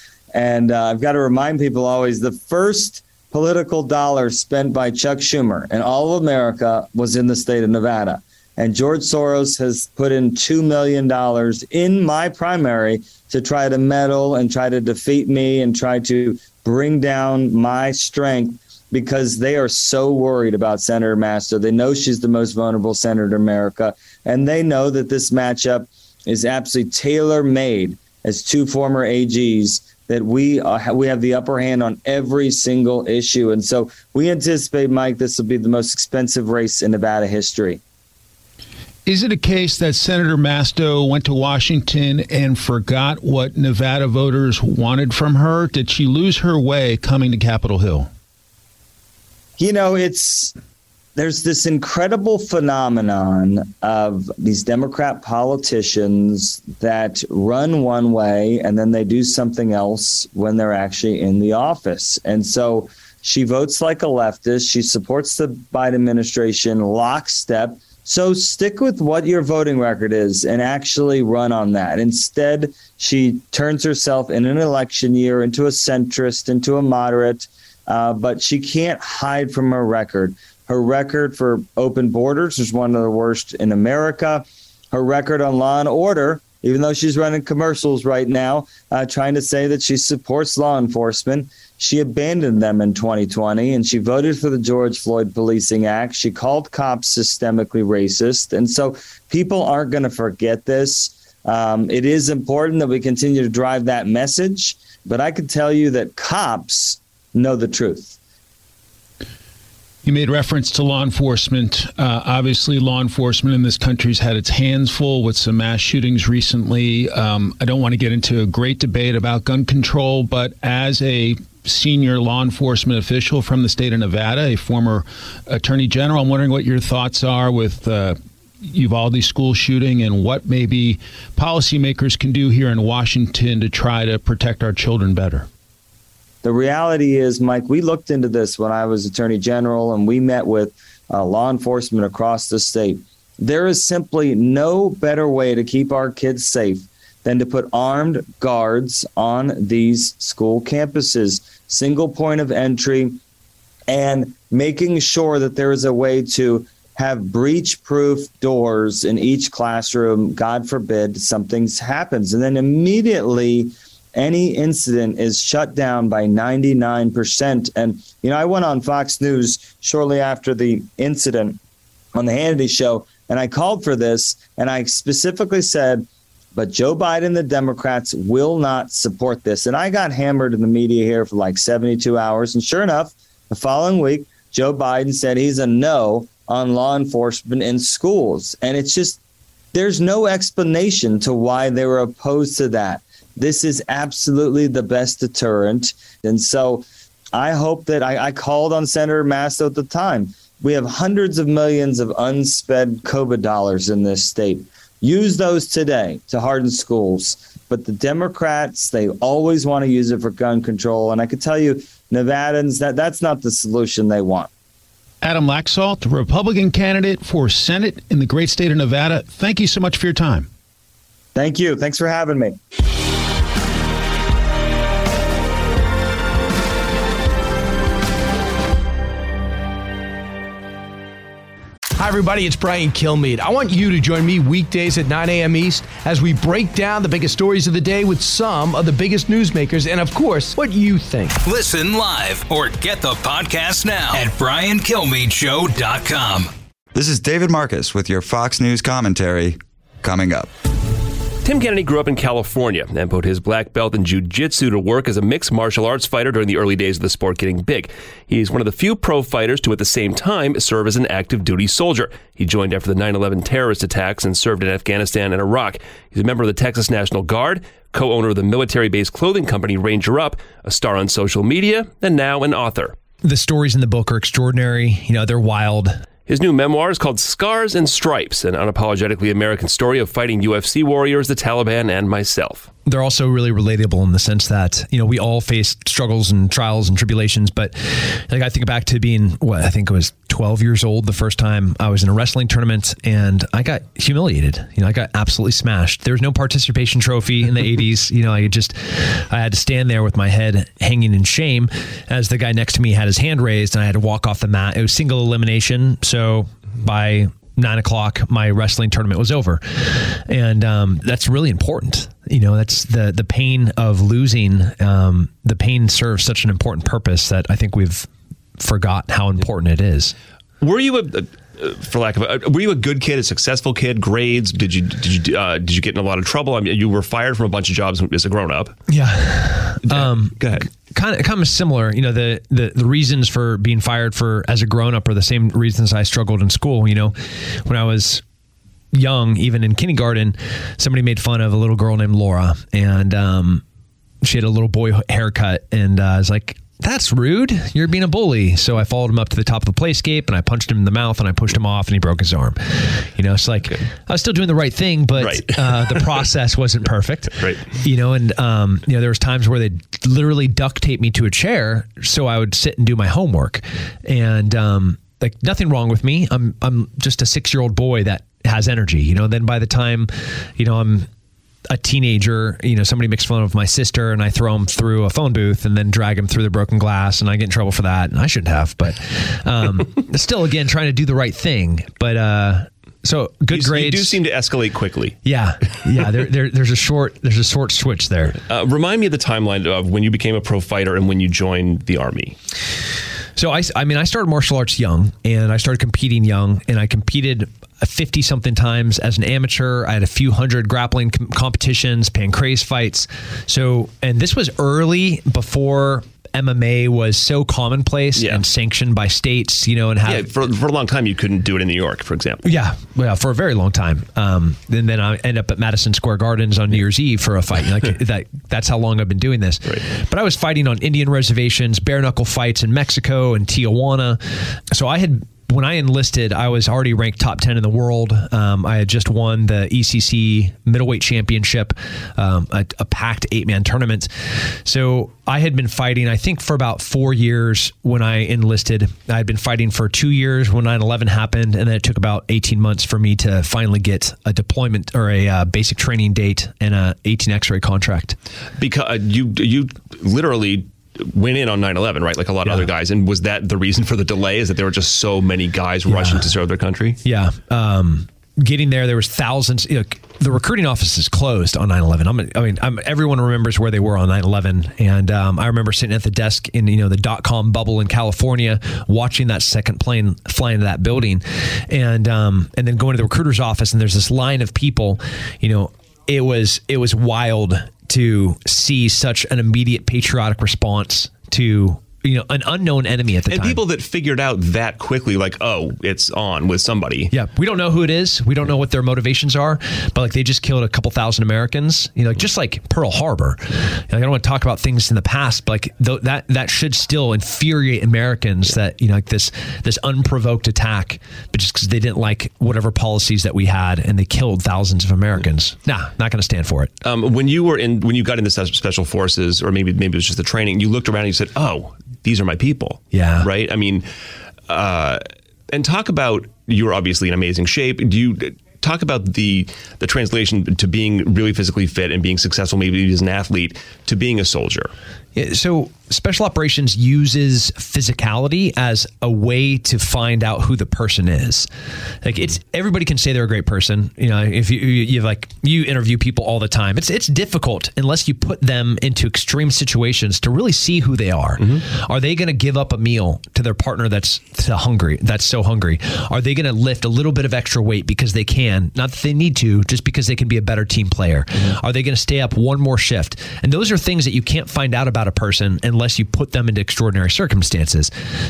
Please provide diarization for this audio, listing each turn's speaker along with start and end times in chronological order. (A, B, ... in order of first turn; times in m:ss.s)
0:00.3-0:37.8 A
0:39.0-0:48.1 B
0:49.6-0:50.5 A
0:51.2-1:48.2 A
1:50.0-2:15.5 B
2:16.4-2:33.2 A
2:33.9-2:51.6 A
2:52.1-3:09.2 A
3:09.7-3:34.5 A
3:35.2-3:40.5 B
3:41.4-3:42.6 A
3:52.0-4:01.4 C
4:01.4-4:06.5 D
4:06.9-4:10.5 E
4:11.4-4:33.0 F
4:33.2-4:36.0 G
4:36.3-4:42.7 F
4:42.9-5:20.1 G
5:20.6-5:28.8 F
5:28.9-5:38.2 G
5:29.9-5:30.7 F
5:38.9-5:43.6 G
5:44.2-6:11.1 G
5:55.2-5:56.2 F
5:57.4-5:57.6 F
6:11.7-6:24.1 G
6:23.5-6:25.2 F
6:25.2-6:28.4 G
6:28.5-6:32.4 F
6:33.4-6:50.3 G
6:50.0-6:52.4 F
6:52.4-7:14.1 G
7:14.6-7:28.2 G
7:28.6-7:37.0 F
7:35.9-7:36.3 G
7:37.0-8:03.6 G
8:03.3-8:07.1 F
8:07.1-8:26.7 G
8:26.8-8:33.8 F
8:32.9-8:33.3 G
8:34.5-8:44.7 F
8:45.1-8:51.5 G
8:52.0-9:17.9 G